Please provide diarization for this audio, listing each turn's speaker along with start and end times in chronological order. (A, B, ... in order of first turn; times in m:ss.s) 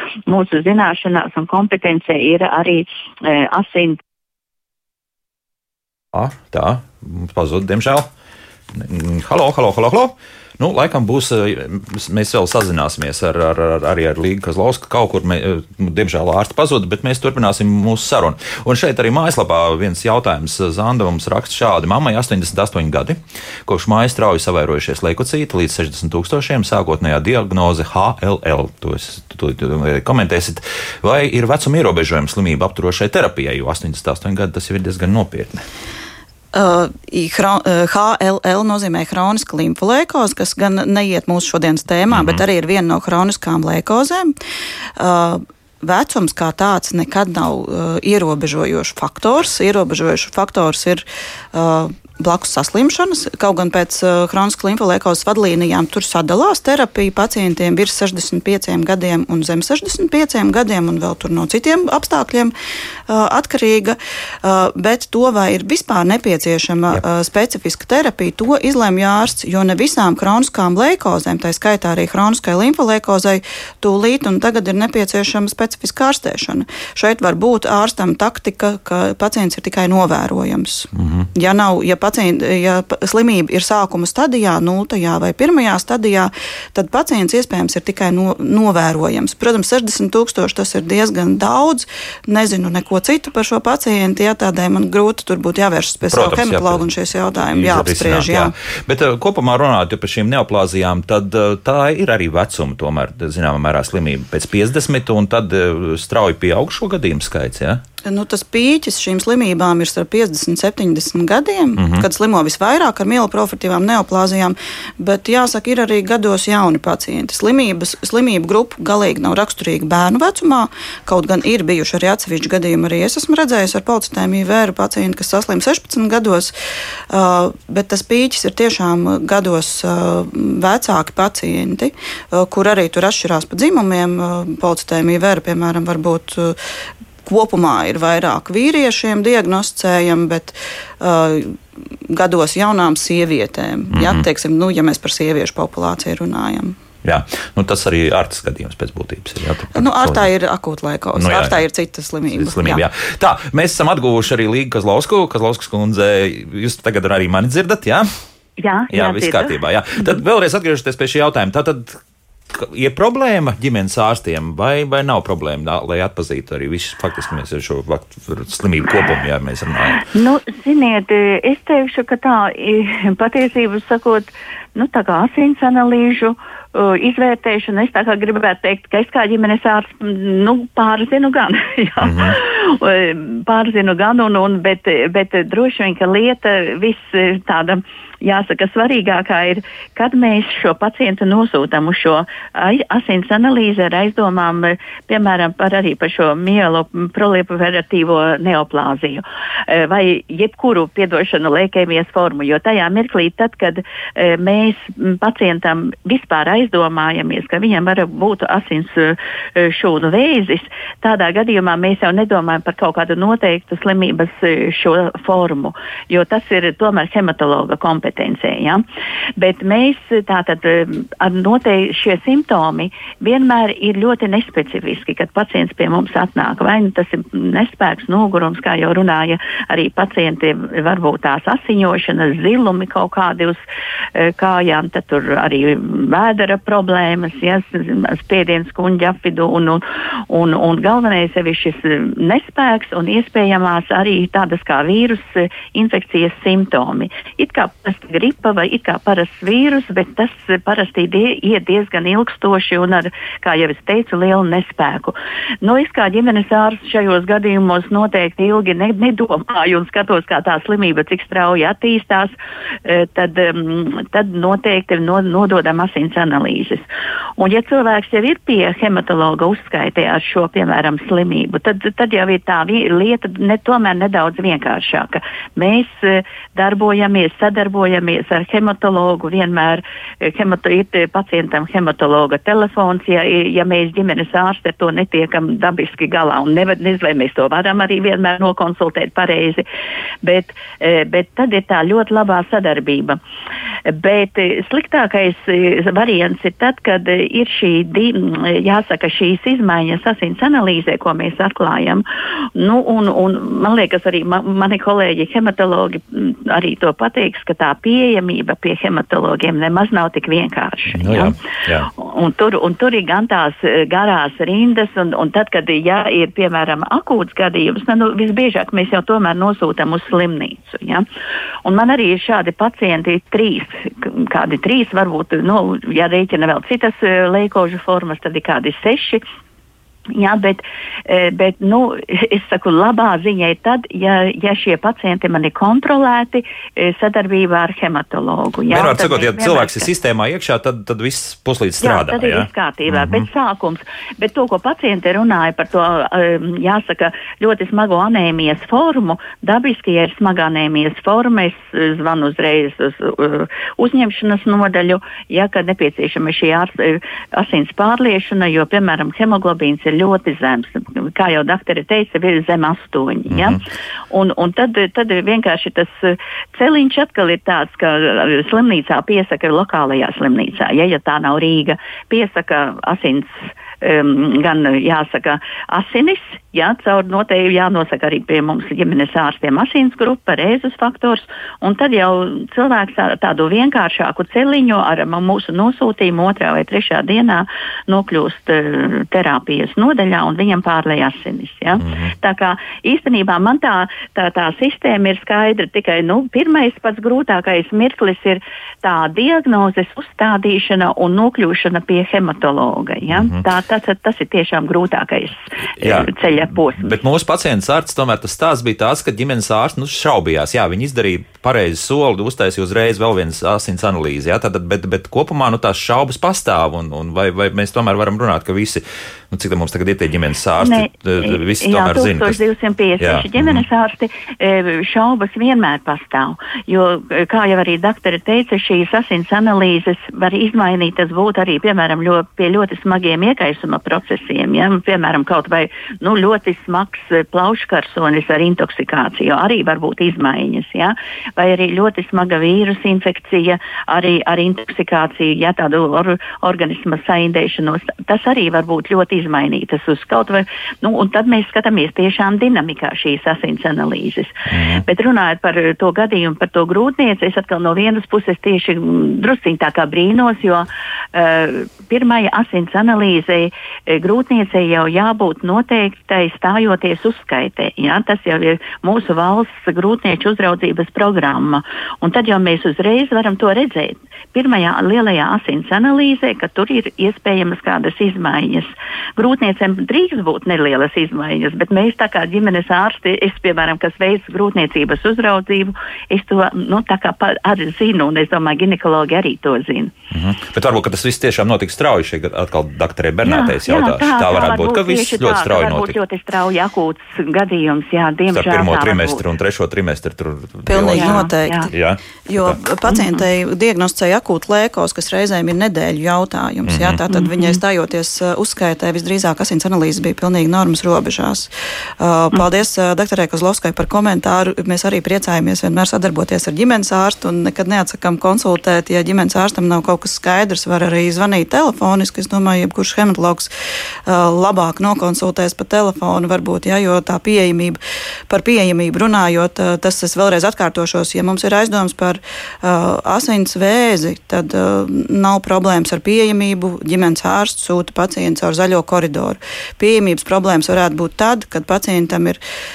0:00.3-0:04.0 A
0:06.1-0:08.1 B
0:08.7-0:35.7 B
0:36.5-0:44.3 C
0:42.1-0:42.4 B
0:45.0-1:02.5 C
1:03.1-1:38.5 C
1:21.0-1:21.3 B
1:36.1-1:36.9 B
1:37.4-1:47.8 B
1:48.0-2:06.5 C
1:51.8-1:52.1 B
2:07.1-2:16.6 C
2:17.2-2:21.6 C
2:22.1-2:26.8 C
2:23.9-2:24.2 B
2:27.0-2:30.3 B
2:29.7-2:32.8 C
2:31.2-2:31.6 B
2:32.3-2:38.1 B
2:38.6-2:39.6 A
2:38.9-2:42.0 B
2:42.5-2:50.1 B
2:50.0-3:38.8 A
3:02.0-3:02.4 B
3:39.4-3:53.6 A
3:54.2-4:22.3 A
4:22.9-4:26.8 A
4:27.4-4:49.6 A
4:50.2-4:53.2 A
4:53.9-5:02.0 A
5:02.6-5:21.1 A
5:11.0-5:11.9 B
5:21.6-5:29.2 A
5:30.2-5:39.9 A
5:38.7-5:43.3 B
5:41.8-6:47.0 A
6:03.3-6:03.6 B
6:31.8-6:32.1 B
6:43.1-6:43.4 B
6:45.8-7:02.4 B
7:00.6-8:09.9 A
7:03.0-7:03.6 B
7:34.5-7:34.8 B
8:10.1-8:16.0 B
8:13.2-8:19.2 A
8:18.3-8:22.6 B
8:20.7-8:21.7 C
8:20.9-8:21.7 A
8:22.3-8:43.5 C
8:26.7-8:27.0 B
8:27.1-8:27.6 A
8:44.1-9:02.4 C